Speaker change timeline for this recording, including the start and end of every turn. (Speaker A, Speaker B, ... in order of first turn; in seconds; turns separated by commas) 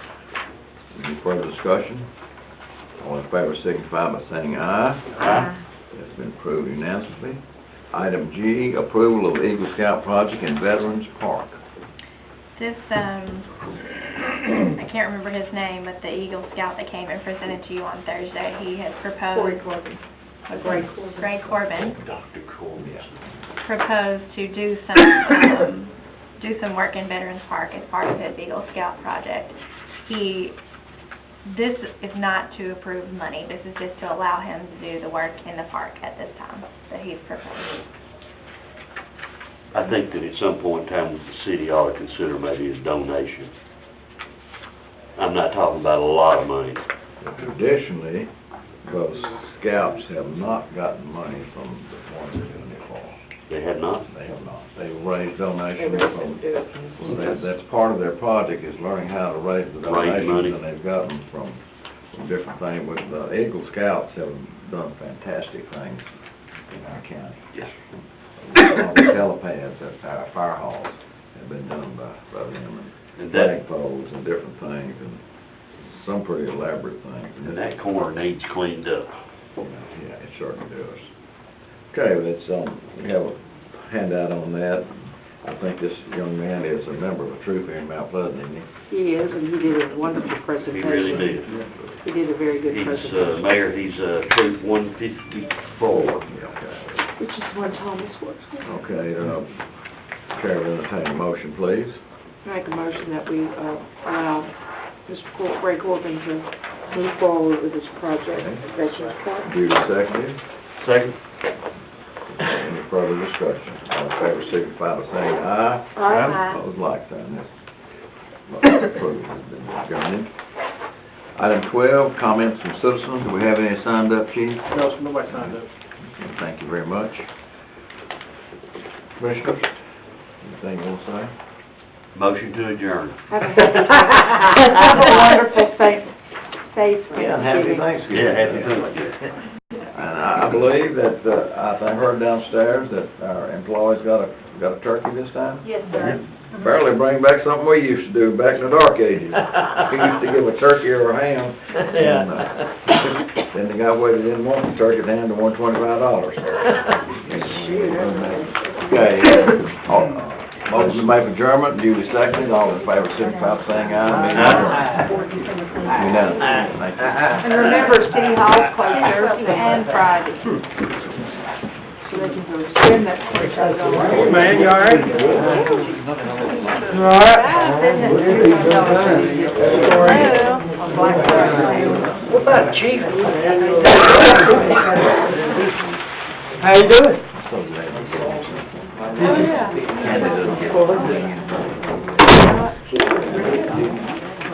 Speaker A: 0.9-2.1, Speaker A: 3.0-7.4, Speaker B: 5.2-5.5, Speaker A: 7.9-11.6, Speaker C: 12.6-13.7, Speaker C: 14.4-19.6, Speaker D: 19.3-21.3, Speaker A: 20.6-20.9, Speaker C: 21.2-22.0, Speaker B: 21.8-23.1, Speaker A: 22.8-23.1, Speaker C: 23.6-30.6, Speaker C: 31.4-37.8, Speaker B: 39.7-43.5, Speaker B: 45.1-46.8, Speaker A: 47.2-48.3, Speaker A: 48.8-53.2, Speaker B: 53.5-54.1, Speaker A: 54.1-66.0, Speaker D: 55.8-57.5, Speaker B: 59.8-60.6, Speaker A: 66.7-75.2, Speaker B: 73.2-73.5, Speaker A: 75.8-77.6, Speaker B: 77.4-79.1, Speaker A: 79.6-81.1, Speaker A: 81.9-88.7, Speaker D: 88.9-91.4, Speaker B: 90.6-91.7, Speaker D: 92.0-93.5, Speaker B: 92.7-96.3, Speaker A: 96.3-97.0, Speaker D: 97.1-98.7, Speaker A: 98.6-99.6, Speaker A: 100.3-102.0, Speaker D: 102.4-104.5, Speaker D: 105.0-109.5, Speaker A: 108.3-108.6, Speaker A: 109.4-110.4, Speaker B: 110.8-111.2, Speaker A: 112.3-117.5, Speaker D: 116.0-116.4, Speaker C: 116.1-116.6, Speaker A: 118.5-120.3, Speaker A: 121.3-127.3, Speaker E: 124.7-125.6, Speaker A: 129.2-129.7, Speaker A: 130.4-131.3, Speaker B: 132.1-133.2, Speaker D: 133.3-137.9, Speaker A: 137.1-138.9, Speaker B: 138.1-139.3, Speaker A: 139.9-165.1, Speaker D: 157.6-158.5, Speaker D: 165.0-165.5, Speaker A: 165.9-167.4, Speaker D: 167.4-170.0, Speaker C: 168.9-170.4, Speaker D: 172.0-175.5, Speaker E: 174.1-175.2, Speaker E: 176.9-180.3, Speaker D: 177.0-182.0, Speaker C: 180.0-180.7, Speaker D: 183.4-184.6, Speaker E: 186.6-187.1, Speaker A: 187.3-191.7, Speaker D: 189.3-189.7, Speaker D: 192.3-193.8